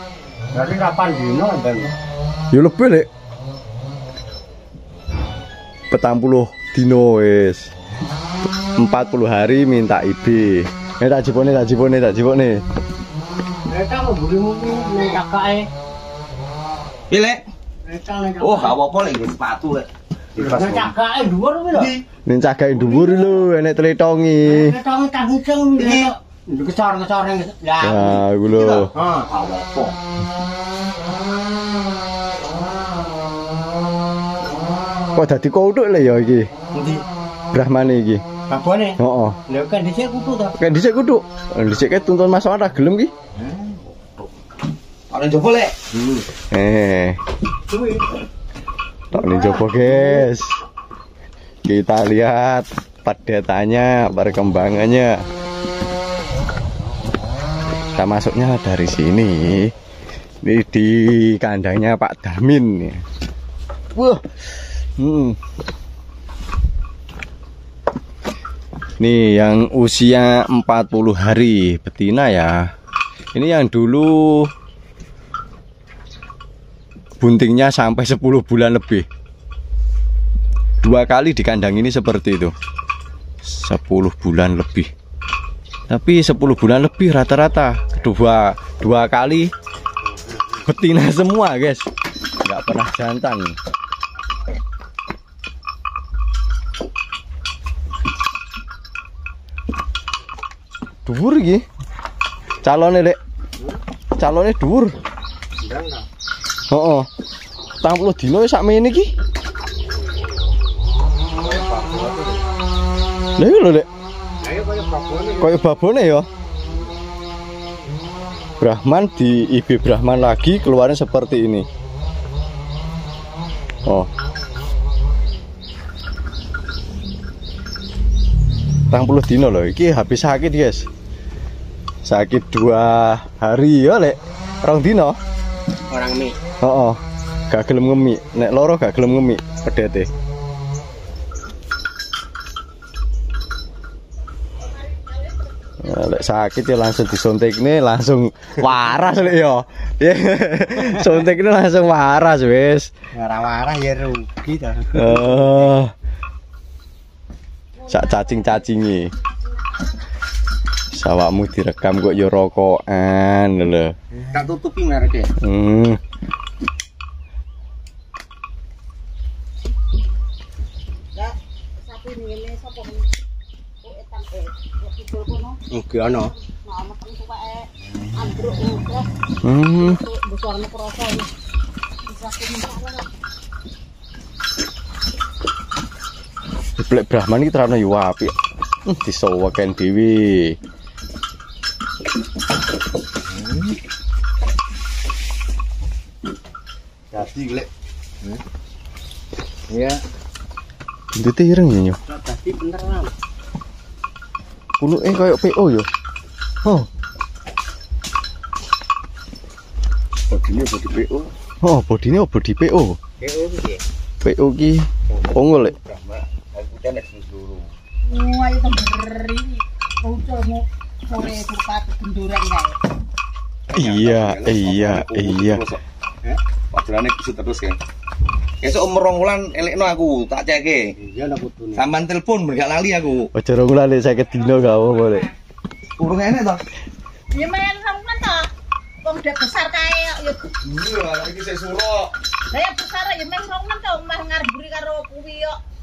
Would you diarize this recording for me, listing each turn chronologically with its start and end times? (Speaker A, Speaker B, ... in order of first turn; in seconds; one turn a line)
Speaker A: 0.5-1.9
Speaker B: 2.5-3.1
Speaker B: 5.9-7.7
Speaker B: 8.8-12.6
Speaker A: 13.7-15.7
Speaker C: 17.1-17.4
Speaker A: 17.9-18.8
Speaker C: 18.4-20.9
Speaker A: 20.4-21.9
Speaker C: 21.7-22.0
Speaker B: 22.3-24.8
Speaker A: 22.7-23.4
Speaker A: 24.4-28.2
Speaker C: 25.8-26.1
Speaker B: 27.8-28.9
Speaker C: 28.5-30.0
Speaker A: 28.9-29.3
Speaker B: 35.1-36.5
Speaker A: 36.7-37.0
Speaker B: 37.5-38.2
Speaker A: 38.5-40.6
Speaker B: 39.0-39.4
Speaker B: 40.6-43.1
Speaker A: 43.5-43.7
Speaker C: 45.1-45.8
Speaker A: 45.9-46.2
Speaker B: 46.5-47.2
Speaker A: 47.7-48.0
Speaker A: 49.1-50.3
Speaker B: 49.1-50.6
Speaker B: 51.7-55.2
Speaker B: 58.0-59.7
Speaker B: 60.4-63.0
Speaker B: 63.9-64.2
Speaker B: 65.0-65.4
Speaker B: 69.0-72.7
Speaker B: 73.3-74.5
Speaker B: 77.2-79.1
Speaker B: 80.8-82.5
Speaker B: 83.5-84.9
Speaker B: 85.9-89.5
Speaker B: 90.6-91.9
Speaker B: 92.4-93.6
Speaker B: 101.1-101.6
Speaker B: 102.6-103.2
Speaker B: 104.2-105.0
Speaker A: 105.6-106.1
Speaker B: 106.7-107.1
Speaker B: 107.8-109.1
Speaker A: 111.4-112.4
Speaker B: 113.4-113.9
Speaker A: 114.4-115.6
Speaker B: 115.4-116.3
Speaker B: 118.6-121.7
Speaker B: 128.9-130.9
Speaker B: 132.1-135.2
Speaker A: 135.9-136.3
Speaker B: 136.6-140.1
Speaker B: 145.8-152.9
Speaker A: 153.1-155.6
Speaker B: 154.9-155.9
Speaker D: 157.8-158.8
Speaker B: 157.9-159.1
Speaker D: 159.3-159.9
Speaker B: 160.9-163.9
Speaker C: 164.3-165.3
Speaker B: 165.4-166.0
Speaker D: 171.2-173.1
Speaker D: 173.8-175.6
Speaker A: 175.7-176.3
Speaker D: 176.4-179.1
Speaker B: 179.4-180.0
Speaker D: 179.7-181.3
Speaker D: 182.0-183.1
Speaker B: 186.8-188.3
Speaker B: 188.9-190.6
Speaker C: 197.1-197.7
Speaker A: 199.7-200.0
Speaker B: 201.1-202.0
Speaker A: 202.1-203.1
Speaker B: 204.8-205.9
Speaker C: 210.3-211.3
Speaker B: 211.6-213.0
Speaker A: 213.2-213.8
Speaker B: 214.2-215.8
Speaker C: 215.1-217.7
Speaker D: 218.1-222.6
Speaker A: 222.3-222.7
Speaker C: 223.7-225.8
Speaker B: 223.7-225.6
Speaker C: 226.7-227.8
Speaker C: 228.6-230.8
Speaker A: 231.0-231.9
Speaker C: 231.8-233.3
Speaker B: 233.3-235.3
Speaker D: 234.3-235.3
Speaker C: 236.0-236.6
Speaker D: 237.3-238.5
Speaker D: 239.0-240.5
Speaker C: 240.6-242.1
Speaker D: 242.5-245.6